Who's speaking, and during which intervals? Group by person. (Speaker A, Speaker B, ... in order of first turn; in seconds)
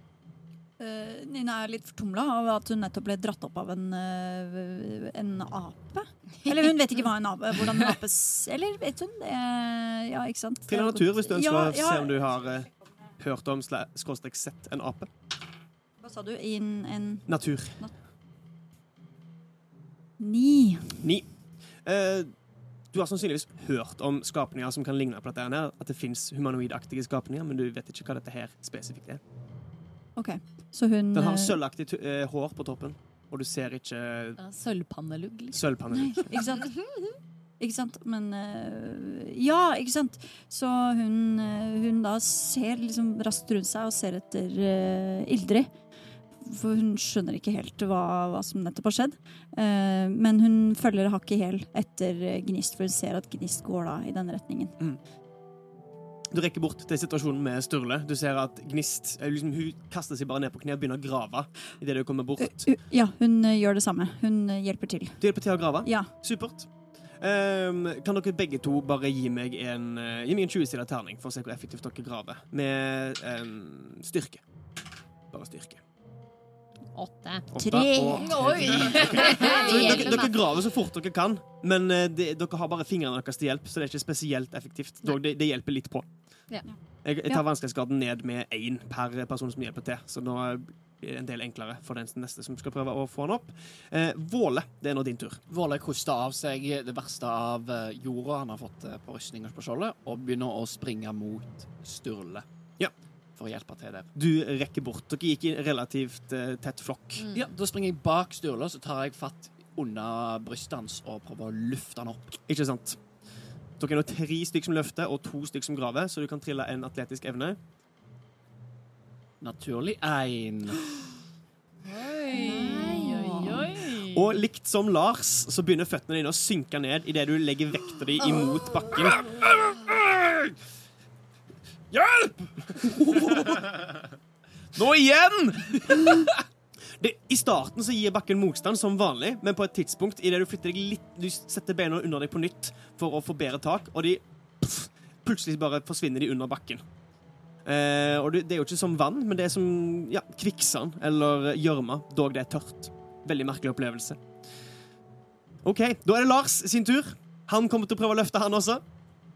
Speaker A: 0.8-12.2, 16.0-17.9, 20.2-21.1, 30.2-31.6, 35.9-36.9, 37.6-54.8, 62.4-66.1, 77.6-78.4, 86.7-87.4, 122.5-123.6
Speaker B: 6.5-6.8, 34.4-35.6, 78.1-80.2, 121.9-124.3
Speaker C: 10.7-15.1, 17.3-17.9, 21.0-29.2, 31.1-34.4, 35.5-36.4, 56.3-62.7, 65.2-74.5, 75.3-75.8, 77.5-95.4, 104.2-107.3, 112.5-113.1, 113.8-117.6, 124.1-129.3, 137.0-146.9, 147.6-154.4, 155.6-158.8
Speaker D: 36.8-37.1, 76.9-77.5, 78.5-80.6, 107.2-107.5, 122.4-123.6
Speaker E: 95.5-102.5, 103.3-104.1, 107.3-112.4, 119.4-120.9
Speaker F: 129.7-130.4, 131.9-133.8, 134.7-136.3